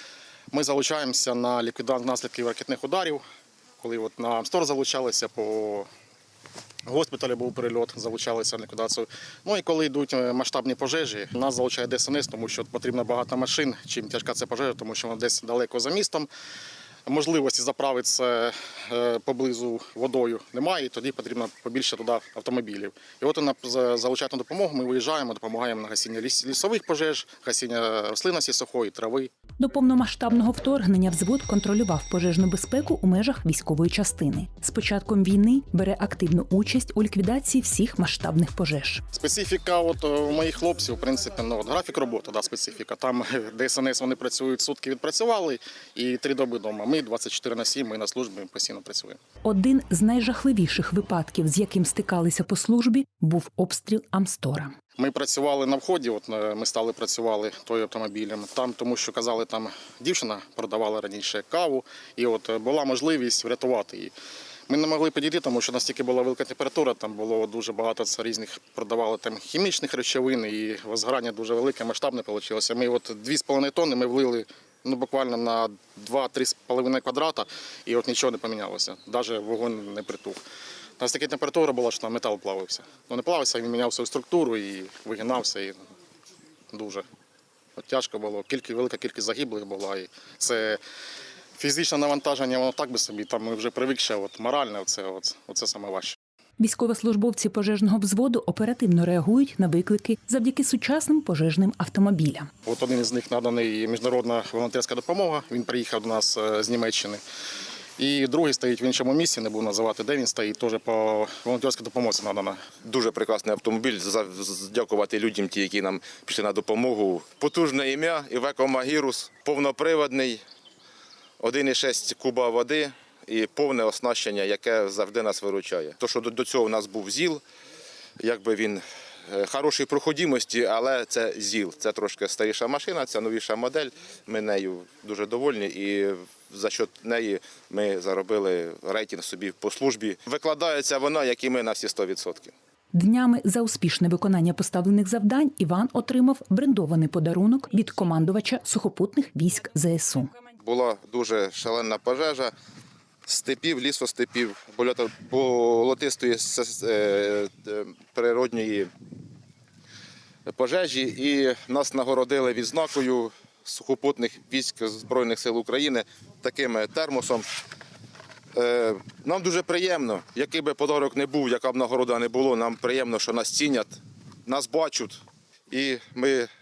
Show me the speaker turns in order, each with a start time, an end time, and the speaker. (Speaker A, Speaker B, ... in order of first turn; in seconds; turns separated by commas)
Speaker A: 0.5-3.2, Speaker A: 3.8-5.9, Speaker A: 6.8-16.3, Speaker A: 17.1-29.3, Speaker B: 29.6-39.0, Speaker A: 39.1-49.2, Speaker B: 49.4-54.7, Speaker A: 55.0-64.1, Speaker A: 64.7-80.4, Speaker A: 81.0-85.8, Speaker A: 86.7-87.0, Speaker A: 87.8-90.8, Speaker A: 91.6-96.2, Speaker B: 96.6-102.5, Speaker A: 102.6-107.2, Speaker A: 108.0-112.6, Speaker C: 112.8-120.4, Speaker C: 121.4-127.4, Speaker C: 128.2-142.5, Speaker B: 142.9-150.3, Speaker C: 150.6-152.5, Speaker C: 153.2-158.9, Speaker C: 160.5-167.4, Speaker C: 168.5-176.5